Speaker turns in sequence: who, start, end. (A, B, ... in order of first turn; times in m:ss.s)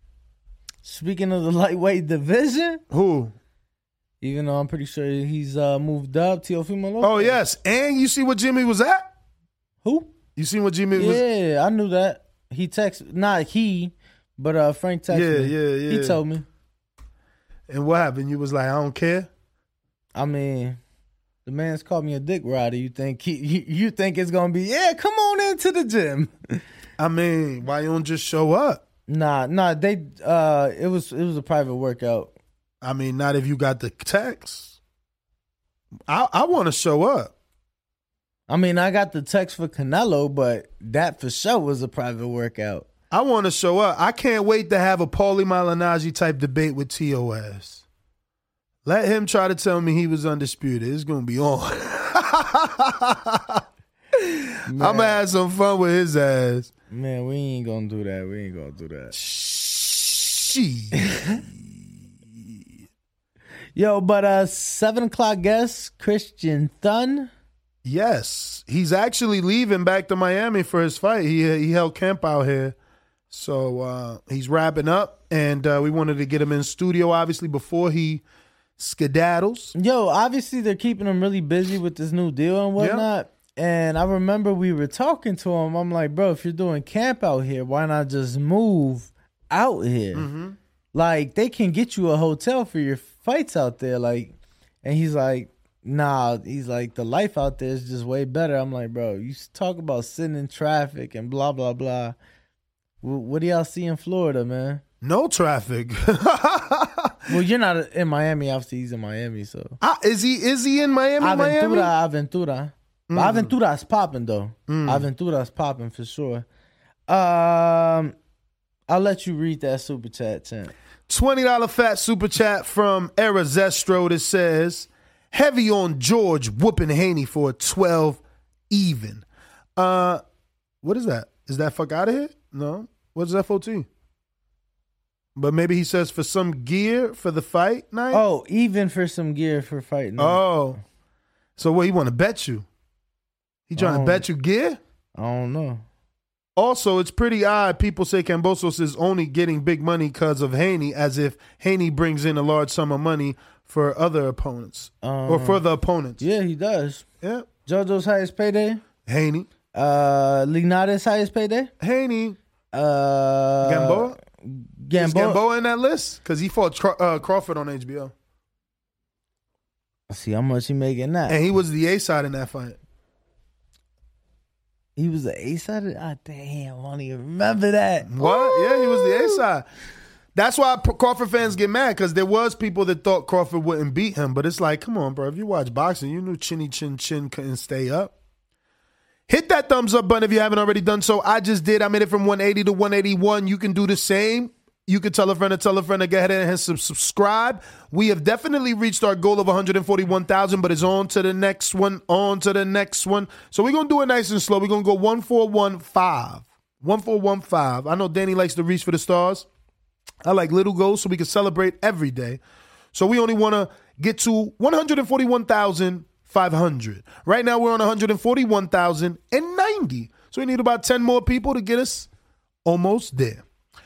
0:00.8-0:02.8 A
0:02.9-0:03.3 B
0:04.2-0:07.4 A
0:07.0-0:09.1 B
0:09.8-0:10.1 A
0:10.4-0:11.2 B
0:11.0-0:16.4 A
0:15.1-0:16.2 B
0:17.7-0:19.3 B
0:20.1-0:20.8 A
0:21.4-0:26.3 A
0:27.0-0:28.8 B
0:29.1-0:32.3 A
0:32.8-0:34.8 B
0:36.1-0:37.3 B
0:38.5-0:42.9 A
0:43.1-0:47.8 B
0:48.8-0:53.6 B
0:54.2-0:56.7 B
0:54.7-0:55.2 A
0:56.9-0:59.1 A
0:59.1-1:02.8 B
1:03.8-1:07.3 A
1:07.8-1:12.8 B
1:13.3-1:18.2 B
1:18.8-1:19.7 B
1:19.7-1:30.3 A
1:22.8-1:23.0 B
1:30.1-1:30.6 B
1:30.9-1:42.2 A
1:43.0-1:44.8 A
1:45.0-1:47.2 B
1:47.3-1:49.8 A
1:49.8-1:51.9 B
1:51.2-1:56.4 A
1:53.1-1:53.5 B
1:54.7-1:55.0 B
1:57.1-1:58.1 A
1:58.9-2:00.7 A
2:01.1-2:09.2 B
2:09.8-2:10.2 B
2:10.8-2:13.9 B
2:15.4-2:18.2 B
2:18.1-2:20.5 A
2:20.2-2:20.8 B
2:21.6-2:22.6 B
2:23.7-2:24.8 B
2:23.8-2:24.2 A
2:25.2-2:25.8 A
2:26.6-2:36.2 B
2:35.0-2:35.6 A
2:36.2-2:37.0 A
2:37.2-2:37.4 B
2:37.6-2:38.8 A
2:39.0-2:39.5 B
2:39.7-2:41.7 A
2:41.8-2:42.4 B
2:42.7-2:45.4 A
2:43.6-2:44.2 B
2:44.9-2:48.1 B
2:50.1-2:51.4 A
2:51.3-2:52.8 B
2:55.0-2:59.4 A
2:58.1-2:59.6 B
3:00.3-3:08.1 B
3:09.3-3:29.5 B
3:30.2-3:32.4 B
3:32.9-3:42.1 B
3:42.6-3:43.4 B